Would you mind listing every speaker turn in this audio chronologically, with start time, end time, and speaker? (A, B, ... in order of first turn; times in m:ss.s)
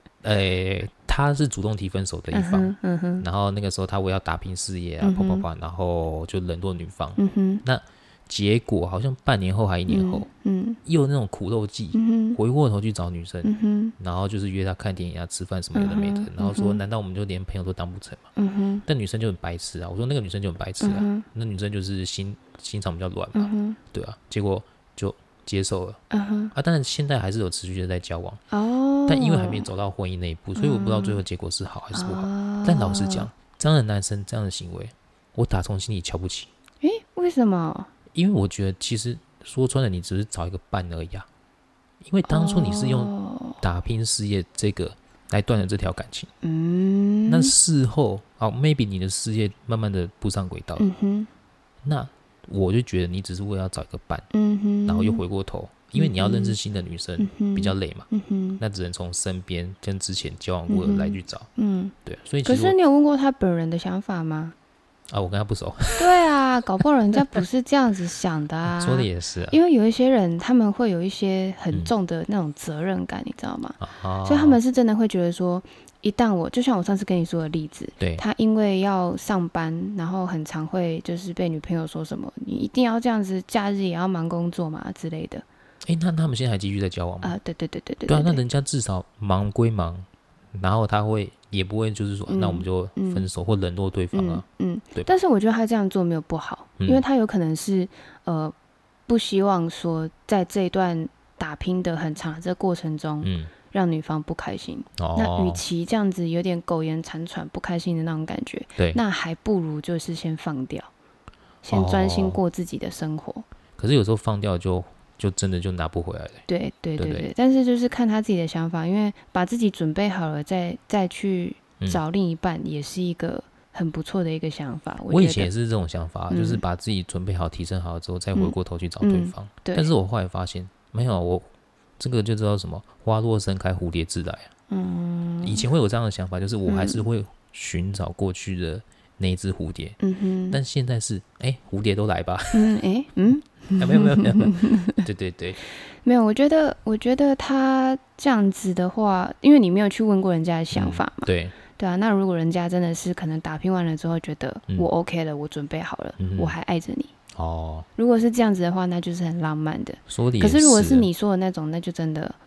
0:00.2-0:10.3 A
0:02.3-0:03.2 B
0:05.0-0:05.4 B
0:07.2-0:07.6 B
0:09.9-0:10.8 B
0:10.8-0:18.2 A
0:11.9-0:12.4 B
0:13.4-0:13.9 B
0:15.7-0:16.8 B
0:18.4-0:18.8 B
0:18.8-0:26.0 A
0:20.8-0:21.3 B
0:23.3-0:23.8 B
0:26.1-0:26.5 B
0:26.5-0:28.4 A
0:28.5-0:29.7 B
0:29.1-0:36.5 A
0:30.6-0:31.2 B
0:31.9-0:33.3 B
0:36.8-0:37.9 B
0:38.1-0:41.3 A
0:42.0-0:46.3 A
0:42.3-0:43.6 B
0:46.4-0:47.5 B
0:47.3-0:50.8 A
0:50.8-0:51.3 B
0:51.8-0:54.2 A
0:54.3-0:55.2 B
0:54.8-1:01.5 A
0:55.9-0:56.6 B
0:57.2-0:58.6 B
1:00.7-1:01.9 B
1:02.0-1:02.7 A
1:02.4-1:04.5 B
1:05.1-1:06.2 A
1:06.0-1:25.4 B
1:08.7-1:09.6 A
1:13.8-1:14.6 A
1:25.8-1:27.4 A
1:27.2-1:28.4 B
1:28.1-1:35.1 A
1:32.3-1:33.2 B
1:34.1-1:38.5 B
1:36.8-1:37.0 A
1:39.1-1:50.9 B
1:43.2-1:43.5 A
1:45.0-1:45.6 A
1:51.6-1:53.4 B
1:51.7-1:52.4 A
1:53.8-1:56.4 A
1:56.5-2:05.5 B
1:57.0-1:57.3 A
2:05.1-2:11.5 A
2:06.3-2:06.6 B
2:08.3-2:09.9 B
2:12.0-2:14.5 A
2:14.7-2:15.6 B
2:15.4-2:20.0 A
2:16.6-2:17.0 B
2:20.0-2:20.6 B
2:20.5-2:22.7 A
2:22.5-2:25.0 B
2:23.8-2:25.6 A
2:26.0-2:37.1 B
2:30.7-2:31.5 A
2:36.2-2:36.6 A
2:37.3-2:37.9 A
2:38.0-2:42.4 B
2:40.1-2:41.1 A